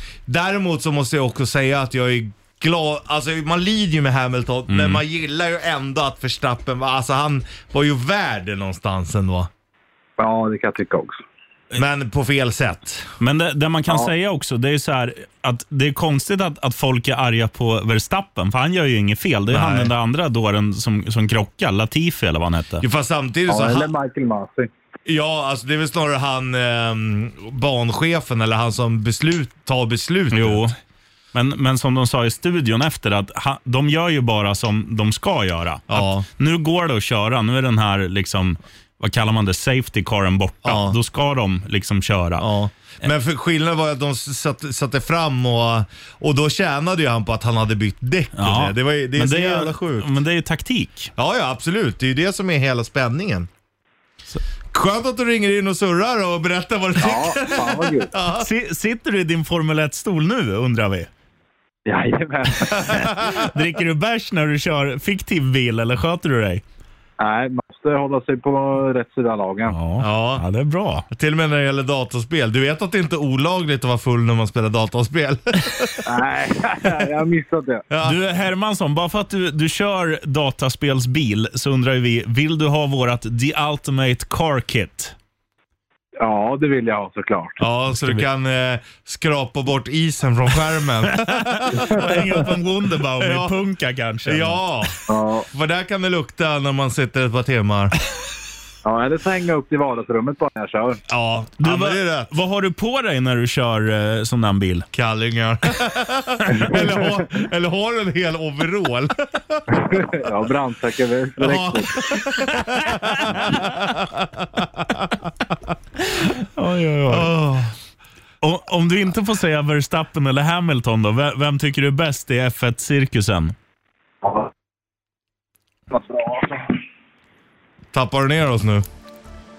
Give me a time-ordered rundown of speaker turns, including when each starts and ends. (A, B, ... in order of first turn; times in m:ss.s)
0:00.3-0:09.5 A
0:04.7-0:05.0 B
0:10.2-0:11.2 C
0:11.8-0:13.1 A
0:13.2-0:22.8 B
0:19.5-0:19.9 A
0:22.8-0:23.9 A
0:23.5-0:24.7 C
0:25.0-0:30.7 A
0:30.3-0:30.8 B
0:31.3-0:42.5 B
0:35.9-0:36.3 A
0:40.6-0:41.0 A
0:42.4-0:50.1 A
0:48.4-0:51.1 B
0:51.2-0:53.5 A
0:54.7-0:58.5 A
0:57.0-0:58.1 C
0:58.4-1:01.1 B
1:01.8-1:02.9 C
1:02.7-1:03.5 A
1:03.1-1:06.6 B
1:07.2-1:09.8 C
1:09.7-1:11.1 B
1:10.0-1:10.4 A
1:11.1-1:16.0 A
1:16.0-1:17.8 C
1:17.9-1:18.2 A
1:18.0-1:25.1 B
1:26.2-1:27.6 C
1:27.6-1:32.4 A
1:27.9-1:28.3 B
1:31.0-1:34.7 B
1:33.2-1:33.5 A
1:34.2-1:37.9 A
1:35.1-1:35.5 C
1:38.8-1:41.0 C
1:41.1-1:42.3 A
1:41.6-1:44.9 B
1:44.9-1:49.6 A
1:49.7-1:52.0 C
1:51.4-1:55.1 A
1:56.1-1:57.3 B
1:57.1-1:57.7 A
1:58.4-2:03.5 B
2:04.2-2:04.5 C
2:05.9-2:06.7 C
2:07.9-2:08.8 A